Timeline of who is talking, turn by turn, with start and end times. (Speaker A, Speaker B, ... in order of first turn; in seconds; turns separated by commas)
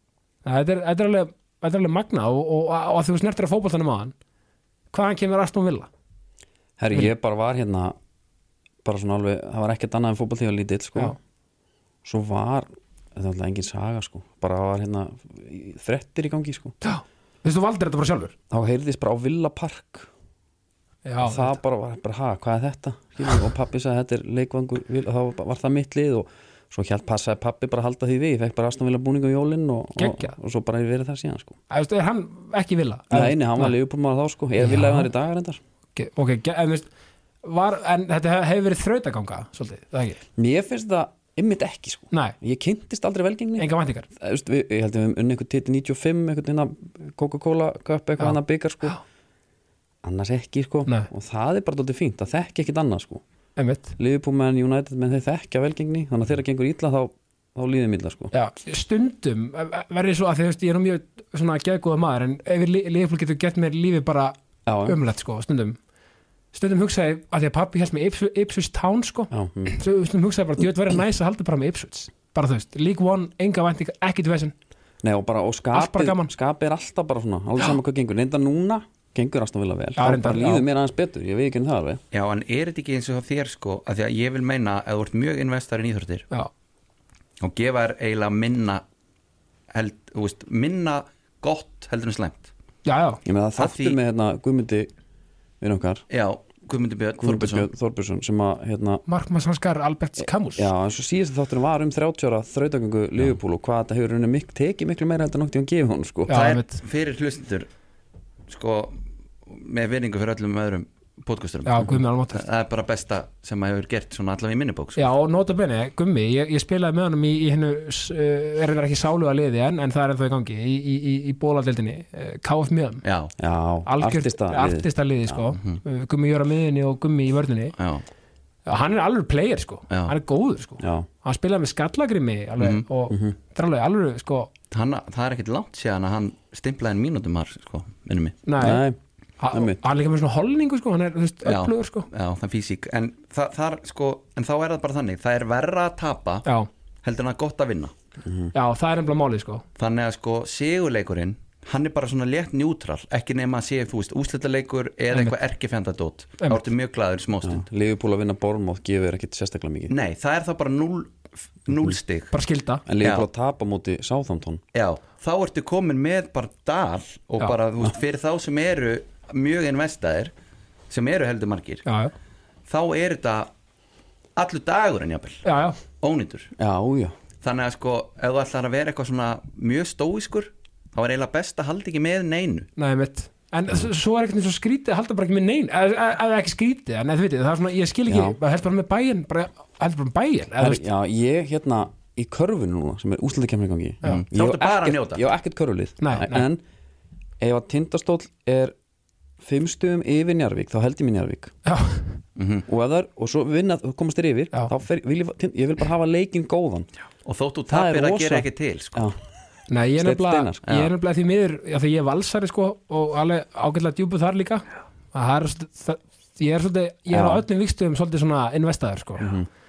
Speaker A: 0.5-4.1, Speaker A: 4.9-5.9, Speaker B: 6.8-8.0, Speaker B: 8.8-11.1, Speaker B: 12.0-16.8, Speaker A: 16.8-18.3, Speaker B: 18.5-20.1, Speaker A: 21.1-21.6, Speaker B: 21.2-31.6, Speaker A: 30.0-30.3, Speaker A: 31.7-33.7, Speaker B: 33.1-35.6, Speaker A: 34.6-35.1, Speaker A: 36.0-36.9, Speaker A: 37.4-40.2, Speaker B: 40.4-49.0, Speaker A: 43.6-44.1, Speaker B: 50.0-53.2, Speaker A: 53.6-54.0, Speaker B: 54.0-58.3, Speaker A: 58.3-65.8, Speaker B: 64.7-65.0, Speaker A: 66.5-74.5, Speaker B: 69.3-69.8, Speaker B: 75.0-82.0, Speaker A: 75.7-76.3, Speaker A: 80.0-80.6, Speaker C: 82.1-86.3, Speaker C: 87.4-88.8, Speaker C: 89.7-92.5, Speaker A: 92.9-93.2, Speaker B: 93.2-94.9, Speaker C: 93.6-94.0, Speaker B: 95.6-96.0, Speaker C: 96.1-97.7, Speaker B: 97.2-99.0, Speaker A: 99.1-100.7, Speaker B: 100.5-106.4, Speaker A: 106.3-106.8, Speaker C: 106.3-107.7, Speaker C: 108.5-115.0, Speaker A: 111.7-112.4, Speaker A: 115.0-123.0, Speaker C: 123.0-123.3, Speaker B: 123.4-125.4, Speaker A: 123.9-127.7, Speaker C: 127.8-128.1, Speaker A: 128.7-134.5, Speaker C: 129.9-130.1, Speaker B: 130.8-131.1, Speaker C: 132.6-132.8, Speaker B: 133.1-133.4, Speaker C: 134.7-138.4, Speaker A: 138.4-138.8, Speaker B: 138.6-139.0, Speaker A: 139.4-142.1, Speaker B: 139.5-139.8, Speaker C: 141.4-146.4, Speaker C: 147.0-147.9, Speaker B: 148.2-148.5, Speaker A: 148.5-149.6, Speaker C: 149.8-157.7, Speaker B: 157.4-159.9, Speaker C: 159.9-162.3, Speaker A: 162.3-162.8, Speaker B: 162.9-164.6, Speaker C: 163.0-163.3, Speaker C: 164.7-170.3, Speaker C: 170.9-171.8, Speaker A: 171.9-172.1, Speaker C: 172.7-173.5, Speaker C: 174.4-175.4, Speaker A: 175.4-175.8, Speaker C: 176.0-176.5, Speaker B: 176.6-177.1, Speaker C: 177.4-182.7, Speaker A: 182.8-190.8, Speaker B: 188.1-188.4, Speaker B: 190.6-196.6, Speaker C: 194.0-195.2, Speaker A: 196.0-196.5, Speaker B: 197.4-198.7, Speaker B: 199.4-201.5, Speaker A: 201.7-202.2, Speaker C: 202.4-202.7, Speaker B: 202.7-206.9, Speaker C: 207.3-209.0, Speaker B: 207.7-209.2, Speaker A: 209.7-219.3, Speaker B: 210.0-210.6, Speaker C: 210.7-210.9, Speaker B: 217.1-217.4, Speaker B: 219.2-219.5